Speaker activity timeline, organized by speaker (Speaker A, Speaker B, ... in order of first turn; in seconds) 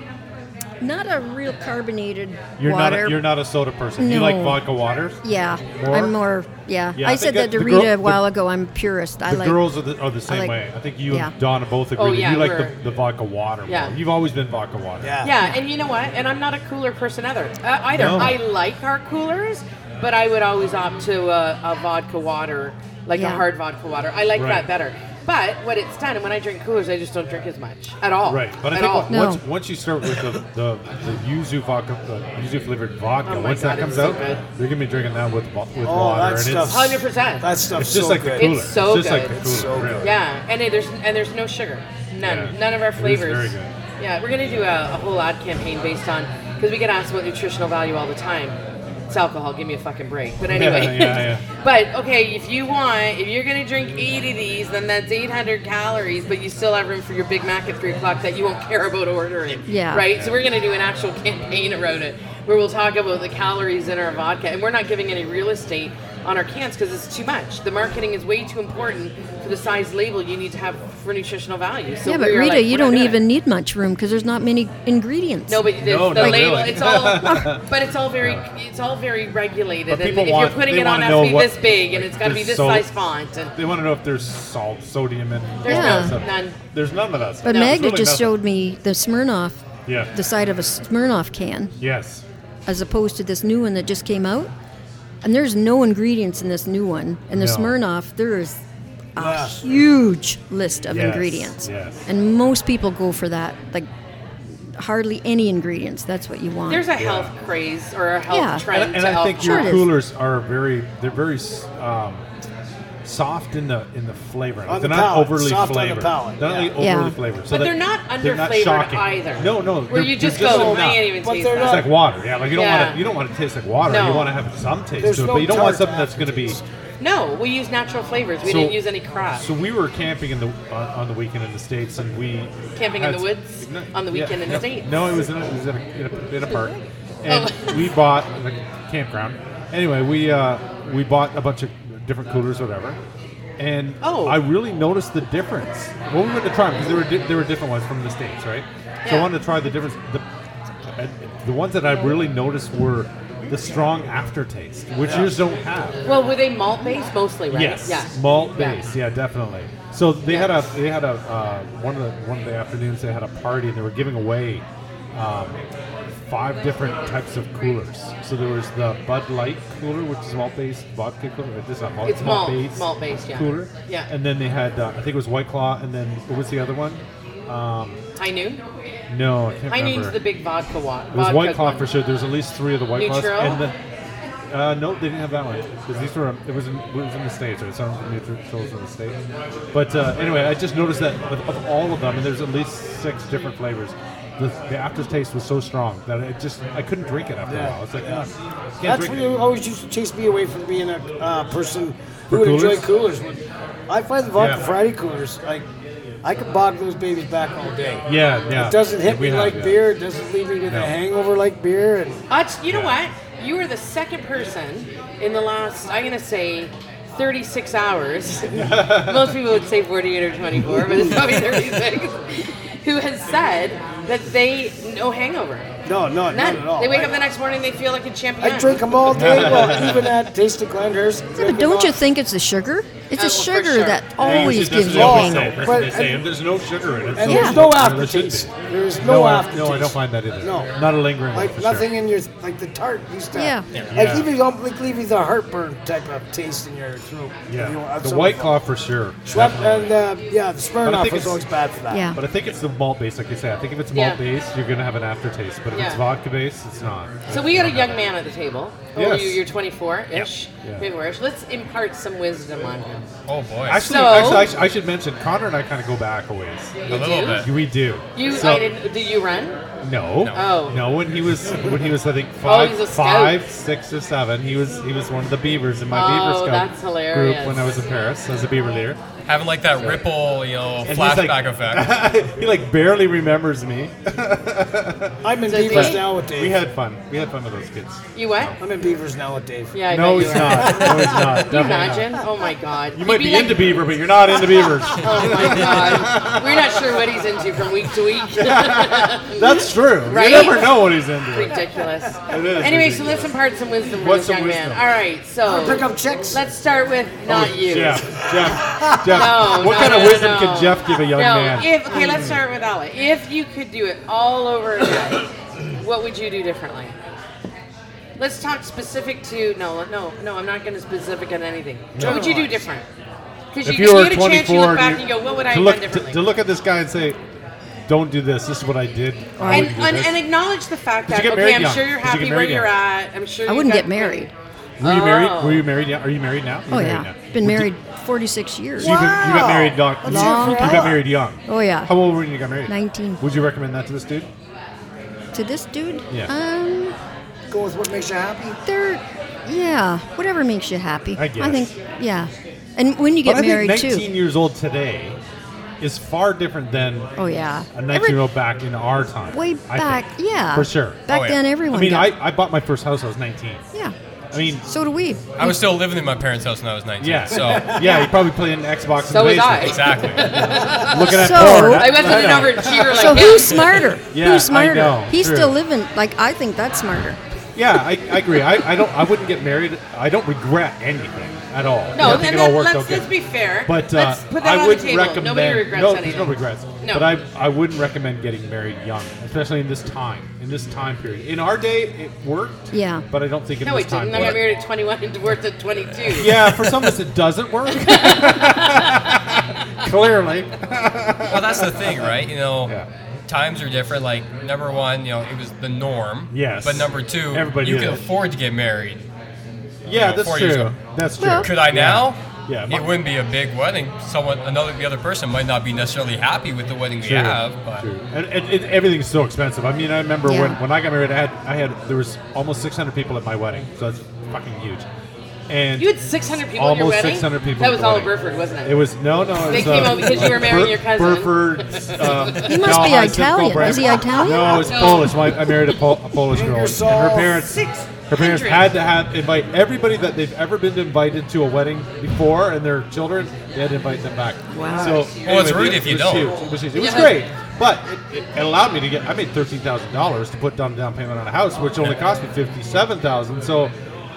Speaker A: 0.8-3.2, 4.0-4.7, 5.2-9.7, 10.3-10.6, 23.1-23.4, 29.1-29.4, 59.7-60.0, 72.1-76.7, 85.7-86.1, 87.4-89.6, 90.1-91.7, 92.7-94.5, 95.2-98.6, 99.2-103.9, 104.6-106.8, 108.3-108.6, 109.4-109.9, 116.8-117.2, 231.4-235.7, 237.2-237.6, 243.3-243.7, 251.9-252.2, 311.9-312.2, 329.4-329.7, 333.5-334.3, 336.7-339.0, 340.1-342.0, 342.7-343.2, 345.3-347.0, 348.7-354.1, 357.2-358.3, 359.3-362.1, 364.6-365.7, 367.8-368.2, 371.1-372.0, 372.9-377.2, 382.0-382.3, 392.7-393.1, 411.2-411.5, 420.2-420.6, 432.4-435.3, 444.5-445.0
Speaker B: 2.6-5.2, 5.7-6.2, 7.0-8.2, 9.3-15.2, 17.9-18.4, 24.3-24.7, 28.3-36.8, 37.8-40.1, 42.2-43.7, 50.5-51.4, 75.8-77.6, 79.9-82.9, 83.6-88.3, 89.9-90.1, 91.8-92.2, 97.3-97.8, 100.9-102.1, 107.0-107.3, 108.7-112.2, 113.0-121.1, 121.6-126.6, 128.4-128.8, 129.3-143.0, 143.6-150.2, 151.0-156.0, 157.5-165.6, 166.2-178.0, 179.1-180.2, 181.1-183.8, 184.5-189.2, 189.7-199.3, 202.3-202.9, 204.4-204.7, 208.1-209.8, 210.7-210.9, 212.7-213.0, 218.5-219.4, 229.1-230.1, 234.2-241.9, 243.9-244.3, 247.5-249.9, 250.8-251.5, 252.2-258.0, 258.9-259.4, 260.1-260.9, 263.7-266.7, 267.4-268.7, 269.8-279.0, 280.8-288.6, 289.9-292.2, 292.9-297.6, 298.3-301.6, 302.3-303.3, 304.0-304.8, 307.2-312.4, 321.9-322.4, 323.6-327.2, 327.9-330.2, 331.1-332.8, 334.8-337.7, 338.8-344.3, 351.1-351.7, 353.2-355.2, 355.8-357.1, 357.7-361.1, 361.7-363.6, 364.3-364.7, 367.0-373.4, 374.1-375.5, 377.6-383.1, 383.6-394.4, 396.1-402.9, 406.3-408.0, 409.9-412.9, 417.0-424.9, 425.5-453.8
Speaker C: 12.0-12.8, 13.7-13.9, 15.2-29.1, 33.3-34.4, 36.6-37.5, 38.4-39.4, 40.0-48.6, 49.1-73.2, 75.5-83.5, 85.6-86.6, 87.5-87.8, 106.7-109.8, 117.5-121.9, 122.5-123.0, 123.8-124.3, 127.0-129.5, 132.8-135.0, 137.3-137.9, 144.0-144.4, 149.0-149.3, 156.1-158.8, 160.3-160.6, 172.0-174.1, 178.2-178.6, 179.7-182.0, 183.0-183.7, 212.3-225.7, 226.3-229.6, 233.2-234.1, 253.9-254.2, 255.7-256.0, 257.3-263.1, 263.8-264.6, 266.8-267.5, 268.1-269.6, 270.3-270.9, 272.4-273.4, 275.9-277.6, 285.5-286.1, 288.1-288.6, 289.7-293.9, 294.9-308.0, 309.1-317.0, 318.2-322.9, 323.5-326.2, 329.5-335.7, 369.1-373.9, 381.9-387.1, 393.6-396.9, 397.8-399.0, 425.8-428.8, 429.4-432.5, 433.6-435.6, 437.3-438.8, 446.7-447.3
Speaker D: 15.0-15.4, 35.8-38.5, 39.1-40.1, 99.2-99.7, 114.7-116.7, 120.3-122.0, 125.0-126.6, 197.5-198.3, 198.8-205.7, 206.2-212.2, 220.7-221.2, 225.9-227.1, 228.4-232.0, 234.2-236.2, 237.2-240.8, 241.3-248.6, 249.3-252.1, 285.2-286.6, 288.6-291.4, 305.5-306.4, 308.8-309.2, 322.0-322.5, 338.8-341.1, 347.5-348.6, 436.3-437.5
Speaker E: 263.3-263.9, 266.9-267.5, 279.3-281.9, 361.1-361.4, 365.4-367.8, 369.6-370.4, 401.2-402.8, 403.3-409.1, 410.0-410.8, 411.4-417.9, 445.2-446.4